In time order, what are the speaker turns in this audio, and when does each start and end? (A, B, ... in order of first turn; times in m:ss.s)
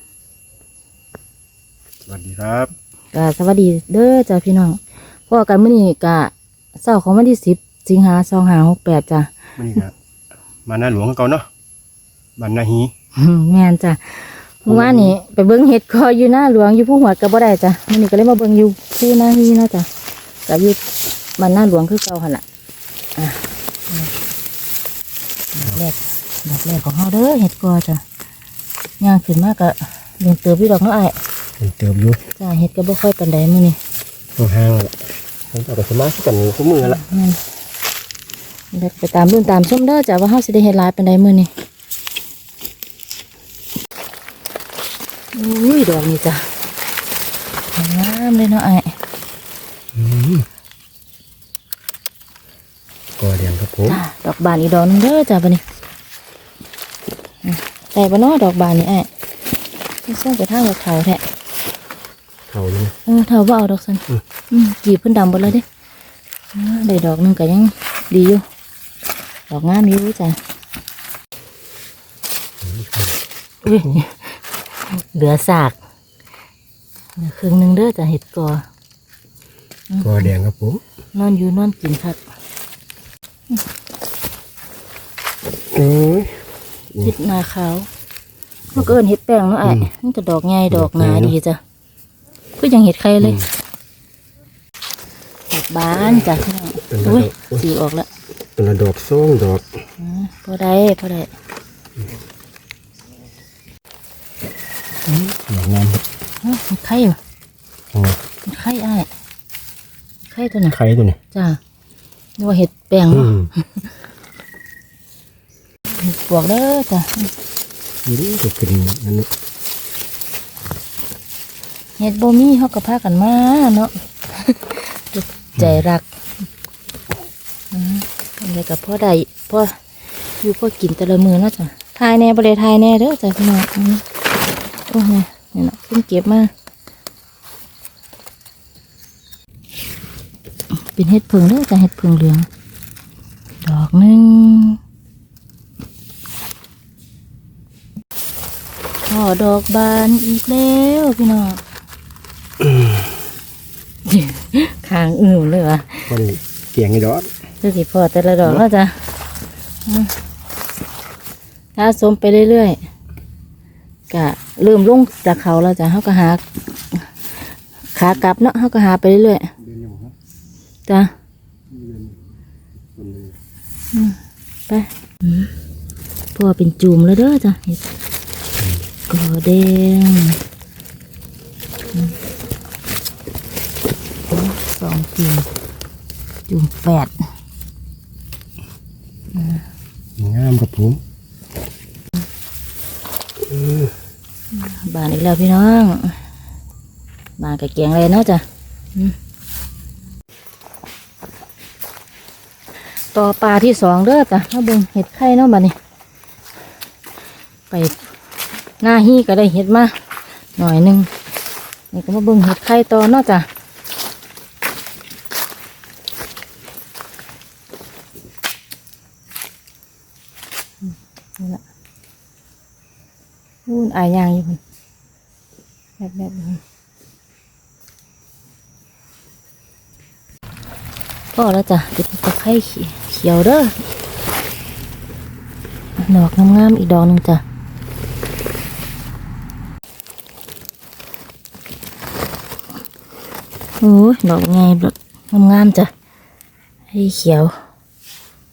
0:02.0-0:02.7 A
0:03.1-0:06.3 B
0:06.8-0:09.3 B
0:09.6-0:10.0 A
0:10.7-0:11.5 A
0:12.4-0:12.9 A
0:13.2-0:19.9 B
0:14.7-0:15.2 A
0:20.5-0:20.8 B
0:21.4-0:22.4 B
0:23.2-0:24.1 B
0:25.5-0:28.0 B
0:29.0-0:31.2 B
0:31.6-0:32.2 A
0:32.4-0:33.8 B
0:34.4-0:35.0 A
0:35.5-0:37.0 A
0:36.8-0:37.4 B
0:38.7-0:41.5 B
0:45.3-0:46.5 B
0:47.8-0:49.0 B
0:50.0-0:50.5 A
0:53.2-0:54.0 A
0:53.9-0:55.6 B
0:57.4-0:59.1 B
1:00.1-1:01.2 B
1:02.5-1:03.0 A
1:03.1-1:05.7 B
1:06.6-1:08.4 B
1:09.5-1:10.4 B
1:12.6-1:13.9 A
1:13.6-1:14.4 B
1:14.9-1:15.8 B
1:17.2-1:18.6 B
1:19.9-1:20.3 B
1:20.0-1:20.8 A
1:21.2-1:22.2 B
1:25.7-1:27.2 A
1:27.0-1:27.9 B
1:28.7-1:31.6 B
1:29.6-1:29.9 A
1:30.7-1:31.4 A
1:32.6-1:33.4 B
1:33.2-1:33.5 A
1:35.5-1:38.1 B
1:36.0-1:37.6 A
1:38.6-1:39.8 A
1:40.0-1:41.3 B
1:45.1-1:46.0 A
1:46.4-1:47.2 B
1:47.9-1:48.2 A
1:48.5-1:49.1 B
1:50.3-1:50.8 B
1:50.7-1:51.2 A
1:51.3-1:51.6 B
1:52.4-1:53.9 B
1:53.1-1:53.5 A
1:55.9-1:57.3 B
1:58.0-1:59.3 A
2:02.0-2:06.1 B
2:07.7-2:09.8 B
2:10.4-2:14.0 B
2:14.9-2:16.5 B
2:20.8-2:22.5 B
2:23.6-2:24.8 B
2:29.1-2:31.6 B
2:32.6-2:33.0 A
2:34.1-2:36.1 B
2:36.1-2:37.3 A
2:37.6-2:39.0 B
2:39.9-2:40.1 B
2:41.8-2:42.8 B
2:44.1-2:47.1 B
2:47.9-2:49.5 B
2:49.6-2:50.1 A
2:51.7-2:52.2 A
2:53.0-2:53.4 A
2:54.7-2:55.5 B
2:56.4-2:57.8 B
2:58.6-2:58.9 A
2:59.1-3:00.4 B
3:04.3-3:05.5 B
3:06.5-3:07.1 B
3:09.3-3:09.6 B
3:10.2-3:11.0 A
3:13.4-3:14.0 A
3:14.5-3:16.2 B
3:17.4-3:18.4 B
3:23.1-3:25.8 B
3:27.7-3:28.0 B
3:28.8-3:30.0 B
3:30.6-3:31.1 B
3:31.9-3:33.5 B
3:40.8-3:41.6 B
3:43.7-3:44.6 B
3:46.0-3:46.6 B
3:51.4-3:53.7 B
3:56.0-3:57.4 B
4:03.8-4:05.9 B
4:06.9-4:07.5 B